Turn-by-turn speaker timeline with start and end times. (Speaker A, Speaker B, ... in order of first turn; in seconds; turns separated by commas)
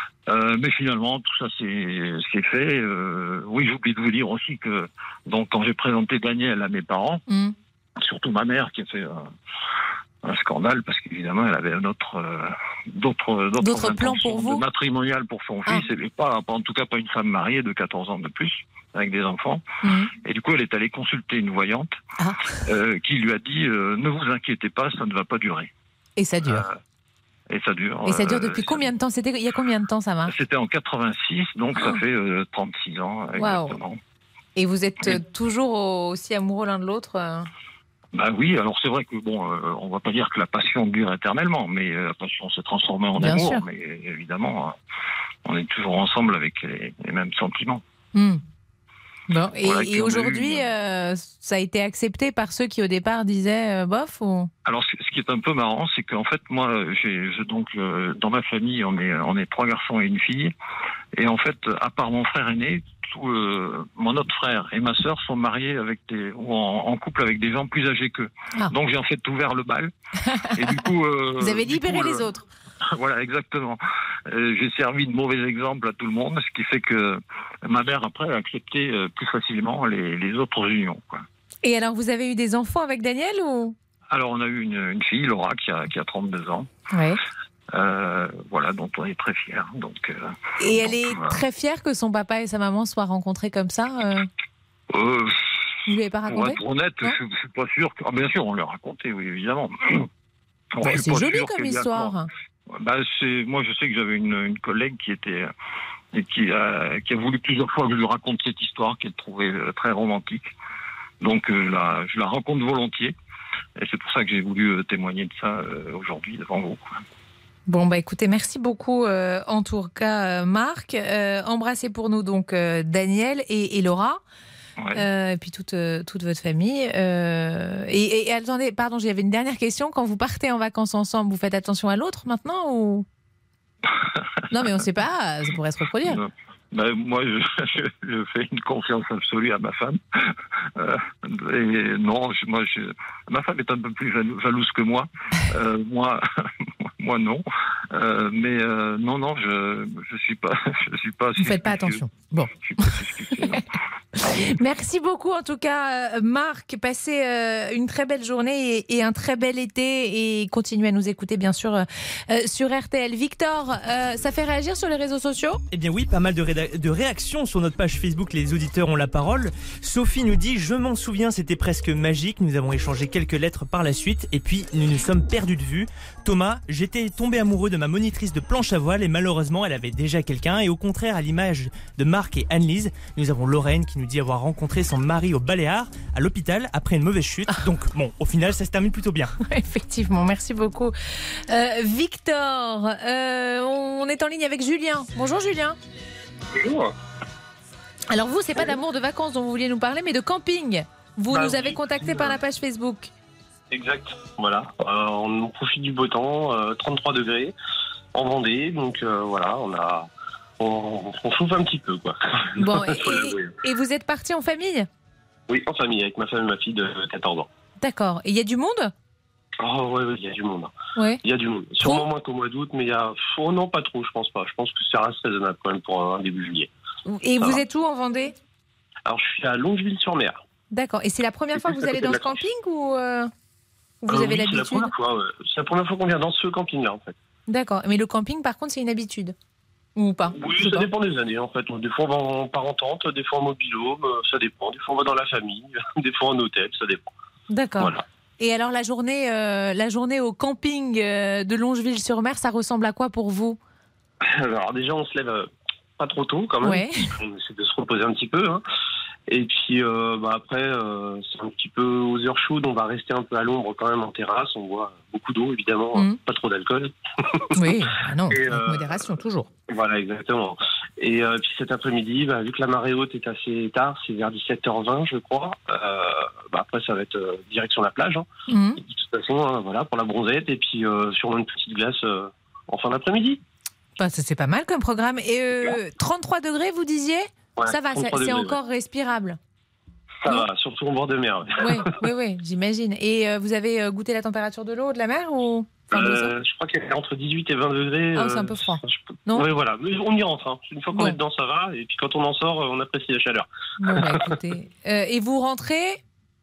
Speaker A: 0.3-7.2, Speaker A: 8.0-9.2, Speaker A: 10.2-19.6, Speaker B: 13.6-14.6, Speaker B: 19.8-20.1, Speaker A: 20.2-21.9, Speaker B: 22.2-22.5, Speaker A: 22.7-25.7, Speaker B: 26.2-26.6, Speaker A: 26.4-26.7, Speaker A: 27.5-28.9, Speaker B: 28.1-30.3, Speaker A: 30.3-34.0, Speaker B: 33.4-33.8, Speaker B: 34.5-37.5, Speaker A: 38.1-44.7, Speaker B: 43.2-43.6, Speaker A: 45.5-47.8, Speaker B: 48.1-48.4, Speaker B: 49.3-54.5, Speaker A: 49.6-50.7, Speaker A: 54.6-60.5, Speaker A: 61.2-69.9, Speaker A: 70.5-72.2, Speaker B: 71.4-72.5, Speaker A: 73.0-81.2, Speaker B: 81.6-83.7, Speaker A: 84.1-86.7, Speaker B: 86.9-87.2, Speaker A: 87.7-91.4, Speaker B: 90.6-94.3, Speaker A: 94.9-95.5, Speaker B: 95.9-97.1, Speaker A: 96.3-100.0, Speaker A: 100.8-102.2, Speaker B: 100.8-102.3, Speaker A: 102.7-105.5, Speaker A: 106.1-110.5, Speaker A: 111.2-113.1, Speaker A: 113.8-116.9, Speaker B: 117.7-124.2, Speaker A: 124.8-125.0, Speaker B: 124.9-133.0, Speaker B: 134.5-136.2, Speaker A: 136.0-140.0, Speaker A: 140.8-146.2, Speaker A: 147.0-152.0, Speaker B: 151.4-152.5, Speaker A: 152.6-153.6, Speaker B: 154.2-165.6, Speaker C: 165.7-189.3, Speaker B: 189.4-190.9, Speaker B: 191.5-195.8, Speaker D: 196.6-196.8, Speaker B: 198.1-203.1, Speaker D: 201.3-202.3, Speaker D: 203.7-207.5, Speaker D: 208.1-210.1, Speaker D: 210.6-213.4, Speaker B: 212.6-214.9, Speaker D: 215.5-217.5, Speaker B: 217.8-218.9, Speaker D: 219.6-220.7, Speaker B: 220.9-221.2, Speaker D: 221.2-226.7, Speaker B: 221.8-222.1, Speaker B: 227.1-228.3, Speaker D: 229.1-230.4, Speaker B: 230.7-233.3, Speaker B: 234.0-234.9, Speaker D: 234.1-237.1, Speaker B: 237.5-239.3, Speaker B: 240.0-240.9, Speaker D: 240.4-247.0, Speaker B: 247.5-253.6, Speaker D: 254.3-255.4, Speaker D: 256.0-258.6, Speaker B: 256.6-257.1, Speaker D: 259.3-266.9, Speaker B: 267.6-269.5, Speaker D: 268.3-268.9, Speaker D: 269.7-278.2, Speaker B: 278.5-278.8, Speaker D: 278.9-283.4, Speaker B: 284.0-289.4, Speaker D: 287.6-288.6, Speaker D: 290.2-291.5, Speaker B: 291.6-296.4, Speaker D: 295.9-303.4, Speaker B: 298.1-299.4, Speaker B: 300.9-301.2, Speaker B: 303.8-306.0